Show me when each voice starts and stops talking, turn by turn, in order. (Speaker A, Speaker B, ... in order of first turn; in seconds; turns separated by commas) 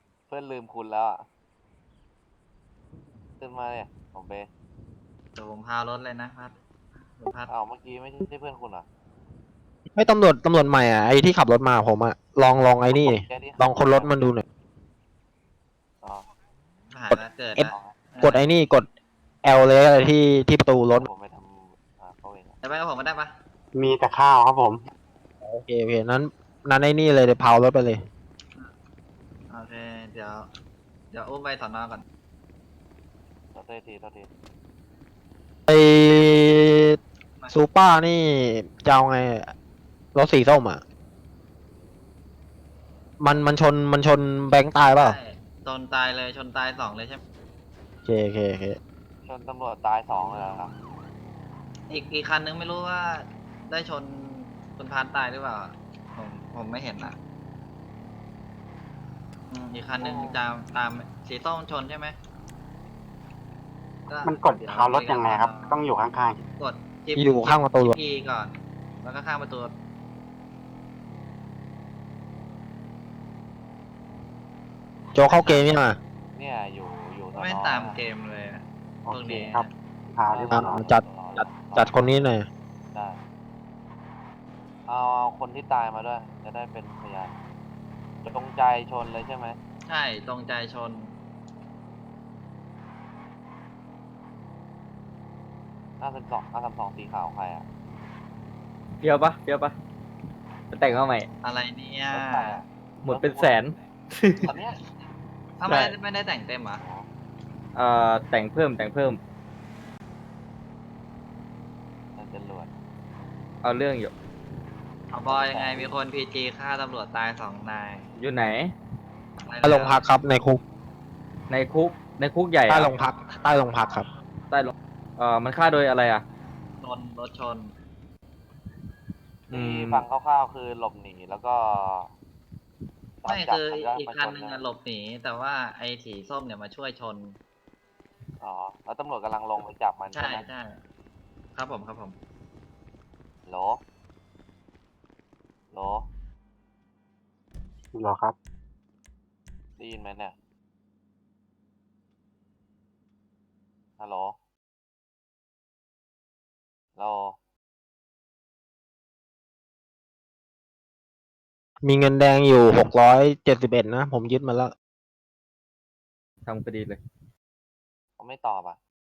Speaker A: 0.3-1.2, Speaker A: 3.4-4.5, Speaker B: 5.3-6.6, Speaker B: 7.1-7.5, Speaker A: 7.5-8.8, Speaker C: 9.9-14.4, Speaker A: 12.9-14.1, Speaker B: 16.9-18.4, Speaker C: 17.1-17.7, Speaker A: 17.7-17.9, Speaker C: 18.2-18.9, Speaker C: 19.4-21.1, Speaker A: 20.9-22.6, Speaker B: 22.6-23.3, Speaker D: 23.7-24.8, Speaker C: 25.4-28.0, Speaker B: 29.5-30.5, Speaker B: 31.1-32.0, Speaker A: 33.5-34.3, Speaker C: 35.7-37.0, Speaker C: 37.5-39.5, Speaker C: 40.1-40.8, Speaker C: 43.2-45.1, Speaker B: 45.0-47.2, Speaker C: 48.0-48.8, Speaker A: 49.2-50.7, Speaker B: 51.9-57.1, Speaker B: 59.5-62.1, Speaker A: 60.0-60.4, Speaker B: 64.1-65.8, Speaker D: 64.2-66.4, Speaker B: 66.6-69.7, Speaker C: 67.2-68.0, Speaker C: 75.1-76.0, Speaker B: 75.3-75.7, Speaker A: 76.3-78.0, Speaker B: 77.3-79.7, Speaker D: 79.0-80.8, Speaker A: 80.3-82.1, Speaker C: 80.5-82.5, Speaker A: 84.9-87.3, Speaker A: 88.2-89.6, Speaker B: 89.9-91.1, Speaker A: 96.0-97.6, Speaker E: 99.0-99.7, Speaker E: 100.7-101.3, Speaker B: 101.4-102.6, Speaker A: 102.1-103.7, Speaker E: 103.0-104.5, Speaker A: 104.4-104.8, Speaker B: 105.6-106.8, Speaker A: 106.8-107.1, Speaker E: 107.7-109.2, Speaker A: 112.2-112.7, Speaker E: 113.6-114.1, Speaker B: 115.1-118.1, Speaker A: 115.2-115.9, Speaker E: 118.2-118.7, Speaker B: 119.4-120.0, Speaker C: 119.6-120.6, Speaker E: 121.5-122.9, Speaker C: 122.7-124.0, Speaker E: 124.5-126.2, Speaker B: 126.8-127.7, Speaker E: 129.5-130.0, Speaker A: 129.5-132.1, Speaker A: 133.2-134.6, Speaker B: 133.3-137.4, Speaker A: 138.4-140.5, Speaker B: 140.1-140.8, Speaker B: 141.6-142.2, Speaker A: 143.4-143.8, Speaker A: 145.7-146.1, Speaker D: 147.9-148.3, Speaker A: 149.8-150.3, Speaker A: 154.0-154.3, Speaker A: 156.9-157.3, Speaker C: 161.8-164.7, Speaker E: 166.4-167.0, Speaker A: 168.2-168.8